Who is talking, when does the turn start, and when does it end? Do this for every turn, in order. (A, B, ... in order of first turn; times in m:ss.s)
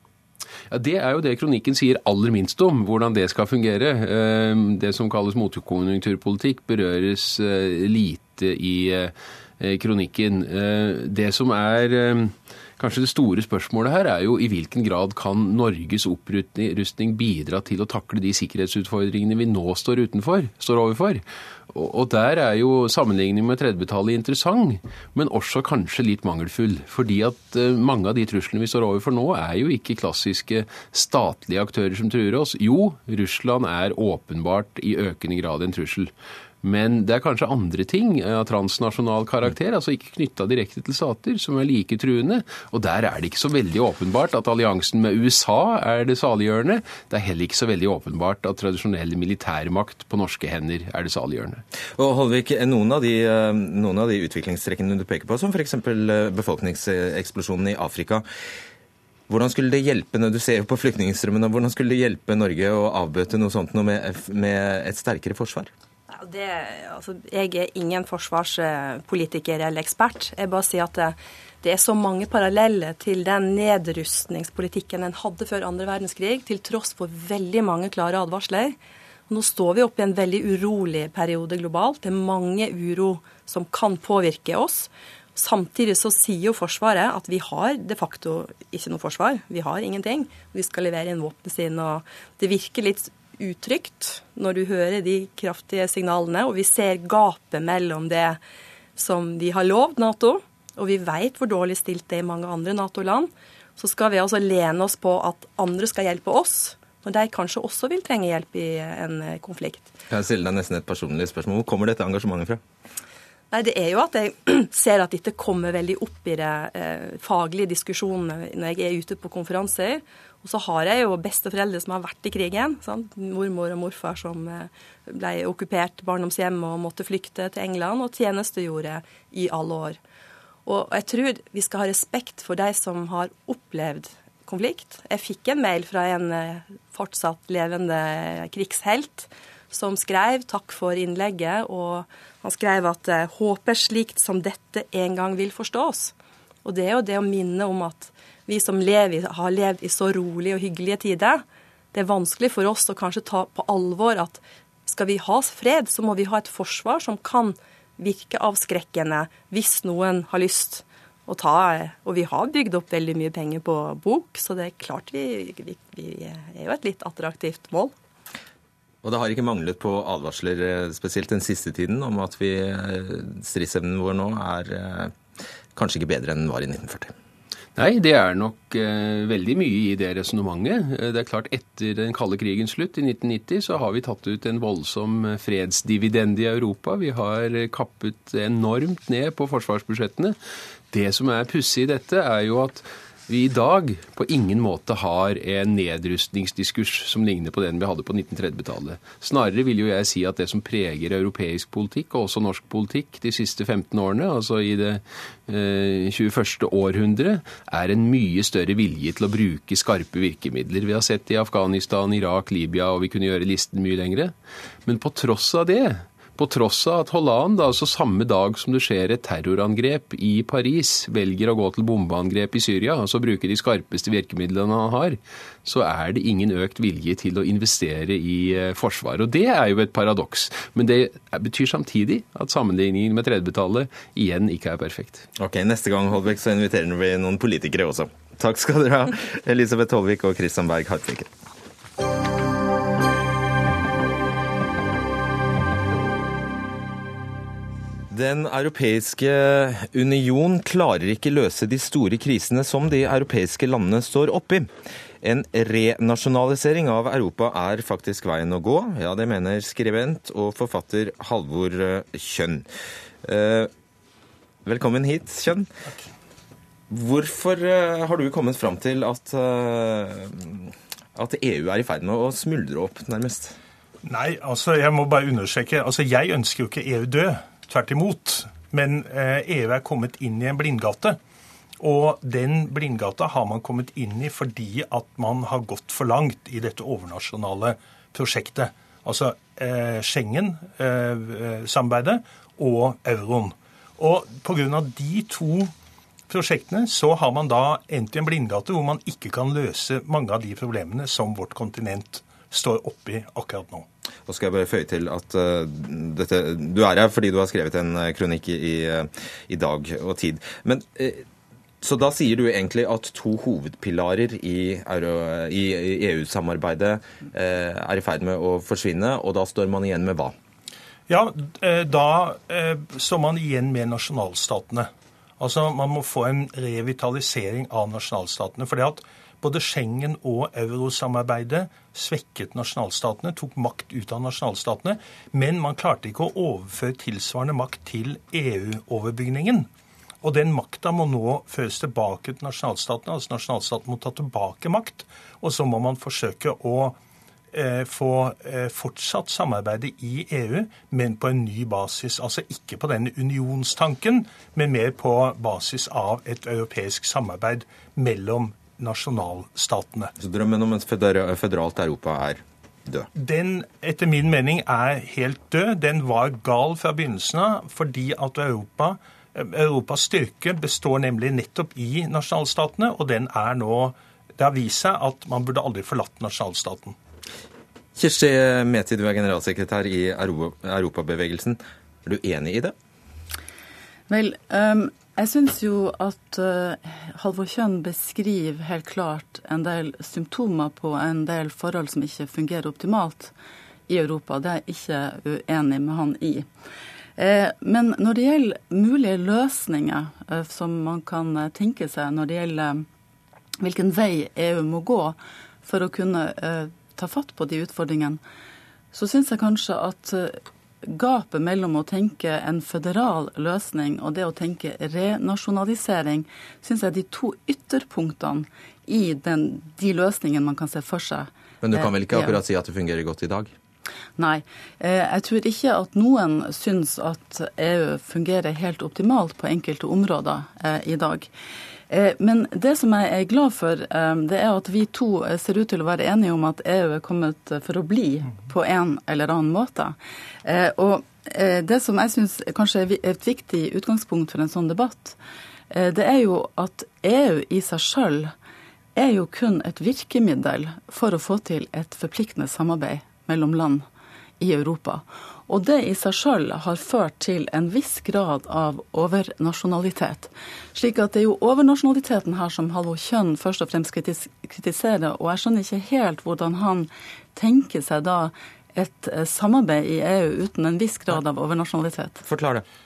0:00.7-0:36.1 A
0:36.6-0:51.6 A
0:52.0-0:58.2 B
0:59.3-1:05.7 B
1:06.1-1:18.8 C
1:19.3-1:38.4 C
1:39.0-1:49.9 C
1:50.1-1:52.6 B
1:53.5-2:10.0 C
2:10.7-2:26.1 C
2:26.6-2:47.9 C
2:49.0-2:55.2 B
2:55.8-2:57.1 B
2:57.8-3:10.4 A
3:10.9-3:34.3 A
3:34.9-3:55.3 A
3:55.4-4:01.3 B
4:08.1-4:14.7 B
4:15.2-4:22.7 B
4:23.2-4:23.7 B
4:24.6-4:25.7 B
4:26.9-4:33.6 B
4:34.0-4:41.2 D
4:41.8-4:55.7 D
4:56.3-5:03.9 D
5:04.3-5:11.3 B
5:11.8-5:20.4 B
5:21.1-5:39.7 D
5:40.2-5:47.0 D
5:47.5-6:00.1 D
6:00.2-6:03.1 B
6:03.2-6:17.0 D
6:18.0-6:22.7 B
6:24.1-6:33.3 E
6:33.9-6:36.5 E
6:37.2-6:42.9 E
6:43.6-6:48.2 E
6:48.9-7:02.4 E
7:01.6-7:03.5 B
7:04.2-7:11.3 E
7:11.9-7:25.2 E
7:25.7-7:28.3 E
7:29.0-7:33.8 E
7:34.4-7:52.2 E
7:52.2-7:52.6 B